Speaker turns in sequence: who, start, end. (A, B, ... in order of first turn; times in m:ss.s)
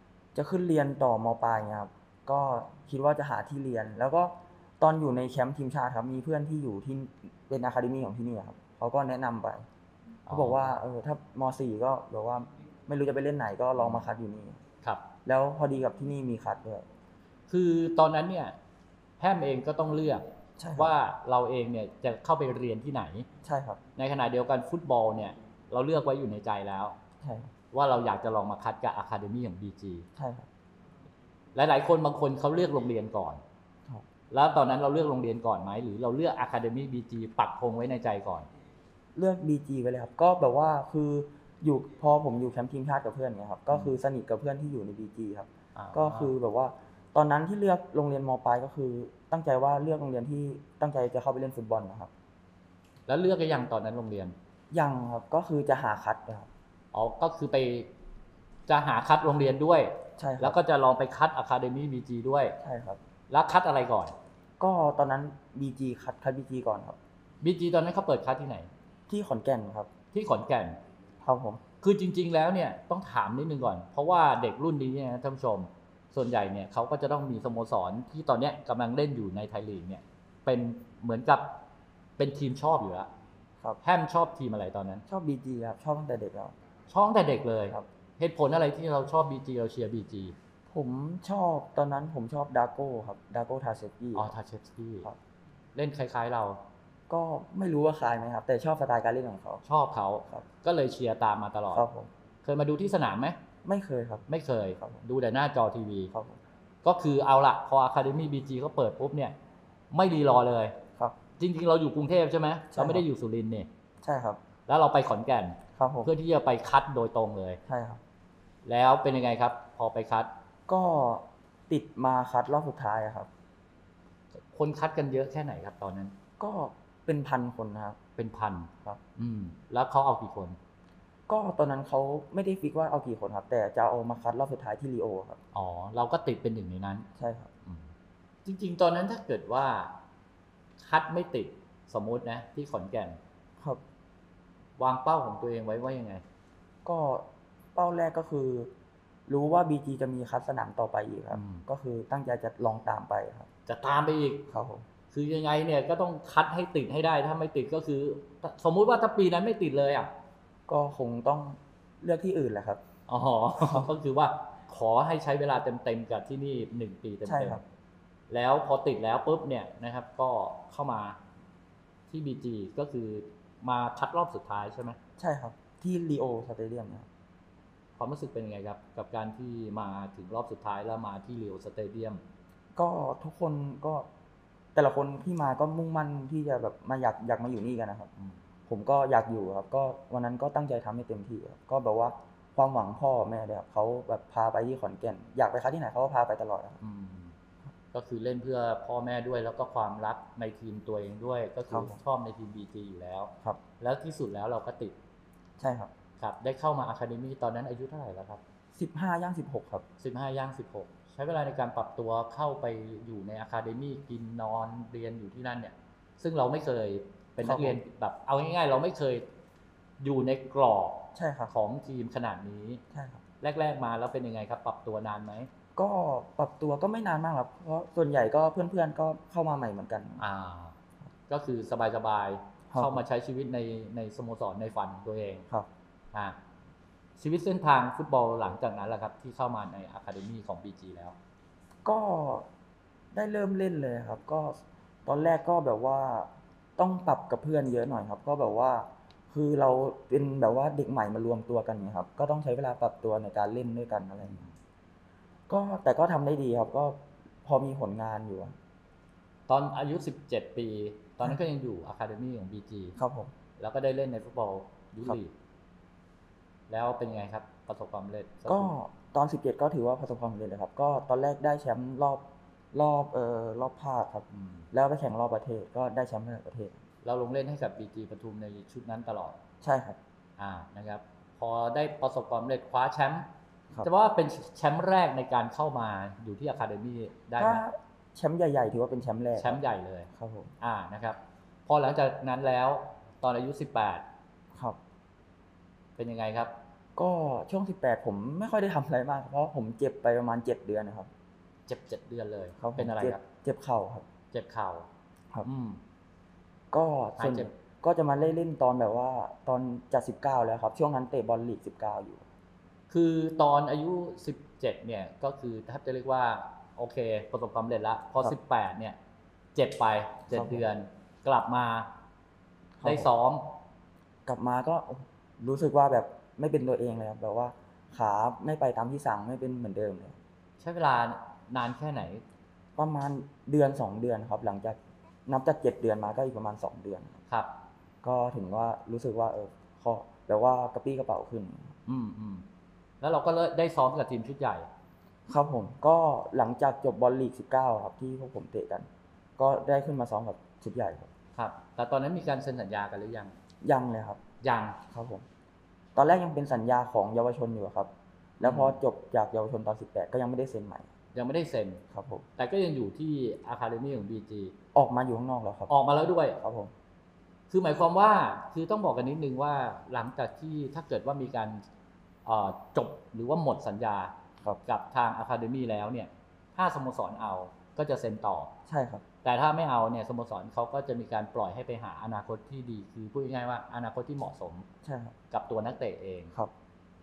0:00.3-0:09.7 A
0:10.3-0:10.7 B
0:10.3-0:14.6 A
0:13.8-0:14.1 B
0:15.3-0:16.9 A
0:17.5-0:18.6 B
0:19.2-0:23.3 B
0:20.6-0:20.9 A
0:23.4-0:23.8 A
0:24.0-0:27.0 B
0:27.2-0:27.5 A
0:27.7-0:30.1 B
0:30.2-0:30.5 A
0:31.6-0:33.4 B
0:34.3-0:38.5 B
0:39.2-0:52.1 A
0:45.8-0:46.3 B
0:53.1-0:54.4 B
0:54.7-0:56.5 A
0:56.9-0:57.9 B
0:58.7-1:02.6 B
1:00.2-1:00.6 A
1:02.6-1:03.0 A
1:03.3-1:04.2 B
1:04.6-1:07.0 A
1:07.4-1:08.7 B
1:09.1-1:09.9 A
1:10.1-1:10.8 B
1:11.2-1:11.6 A
1:11.8-1:21.6 B
1:22.2-1:23.1 B
1:23.8-1:25.0 B
1:25.1-1:26.6 A
1:26.9-1:30.4 B
1:30.7-1:34.3 A
1:34.2-1:35.1 B
1:35.8-1:36.6 B
1:37.1-1:39.6 A
1:39.6-1:41.8 B
1:41.7-1:42.1 A
1:42.4-1:43.4 B
1:43.6-1:44.3 A
1:44.3-1:46.1 B
1:46.1-1:46.4 A
1:46.8-1:49.4 B
1:49.9-1:50.8 B
1:51.4-1:53.7 B
1:52.7-1:53.1 A
1:54.0-1:54.4 A
1:54.7-1:57.6 B
1:55.8-1:56.1 A
1:57.7-1:58.0 A
1:58.6-2:00.3 B
2:00.7-2:03.3 A
2:04.5-2:06.2 B
2:06.4-2:08.0 A
2:08.2-2:10.6 B
2:11.3-2:15.4 A
2:15.5-2:17.1 B
2:17.2-2:17.5 A
2:18.4-2:20.0 B
2:20.8-2:23.2 B
2:24.8-2:26.2 B
2:26.8-2:28.7 A
2:29.3-2:33.5 A
2:31.3-2:31.6 B
2:33.7-2:34.5 B
2:34.5-2:34.9 A
2:35.1-2:40.1 B
2:40.7-2:42.8 A
2:43.1-2:47.6 B
2:43.6-2:43.9 A
2:47.2-2:47.6 A
2:48.3-2:51.2 B
2:52.1-2:55.0 B
2:55.2-2:57.1 A
2:58.0-3:02.2 B
3:02.8-3:04.1 A
3:04.8-3:08.1 A
3:08.7-3:16.8 A
3:16.8-3:17.4 B
3:17.9-3:25.0 B
3:21.7-3:22.0 A
3:25.6-3:25.9 A
3:26.2-3:28.4 B
3:28.8-3:29.9 A
3:30.0-3:39.3 B
3:37.4-3:37.8 A
3:40.0-3:42.8 B
3:41.2-3:41.5 A
3:42.9-3:43.2 A
3:43.4-3:45.5 B
3:45.8-3:50.2 A
3:50.2-3:50.8 B
3:51.3-3:55.5 B
3:52.7-3:53.0 A
3:56.1-3:56.4 B
3:57.2-4:01.2 B
4:01.8-4:02.5 A
4:03.1-4:14.5 A
4:15.5-4:18.6 A
4:19.5-4:23.0 B
4:23.0-4:23.3 A
4:23.6-4:25.3 B
4:26.7-4:28.8 B
4:28.5-4:36.8 A
4:34.3-4:34.7 B
4:37.0-4:39.4 B
4:39.6-4:40.0 A
4:40.4-4:43.3 B
4:43.8-4:47.6 B
4:47.4-4:49.6 A
4:49.4-4:50.1 B
4:50.1-4:50.5 A
4:50.6-4:54.0 B
4:54.5-4:54.8 A
4:56.0-4:56.5 B
4:57.0-5:01.1 A
5:01.7-5:03.2 B
5:02.6-5:04.1 A
5:04.3-5:04.9 B
5:05.4-5:05.8 B
5:06.7-5:12.2 A
5:07.2-5:07.5 B
5:12.9-5:19.0 B
5:19.6-5:21.9 B
5:20.3-5:20.6 A
5:22.8-5:23.1 A
5:22.8-5:23.6 B
5:24.3-5:30.2 A
5:30.6-5:32.2 B
5:32.8-5:37.2 A
5:38.0-5:41.7 A
5:41.9-5:42.5 B
5:43.0-5:44.7 B
5:45.3-5:51.1 A
5:51.4-5:53.4 B
5:53.6-5:54.2 A
5:54.4-5:54.8 B
5:54.9-5:55.3 A
5:56.0-6:00.9 A
5:58.4-5:58.8 B
6:01.2-6:01.8 B
6:01.9-6:02.3 A
6:02.4-6:04.6 B
6:04.7-6:05.7 A
6:05.7-6:06.4 B
6:06.4-6:06.7 A
6:07.5-6:11.6 B
6:12.3-6:18.5 B
6:18.7-6:19.0 A
6:19.2-6:24.7 B
6:24.8-6:25.2 A
6:25.3-6:26.3 B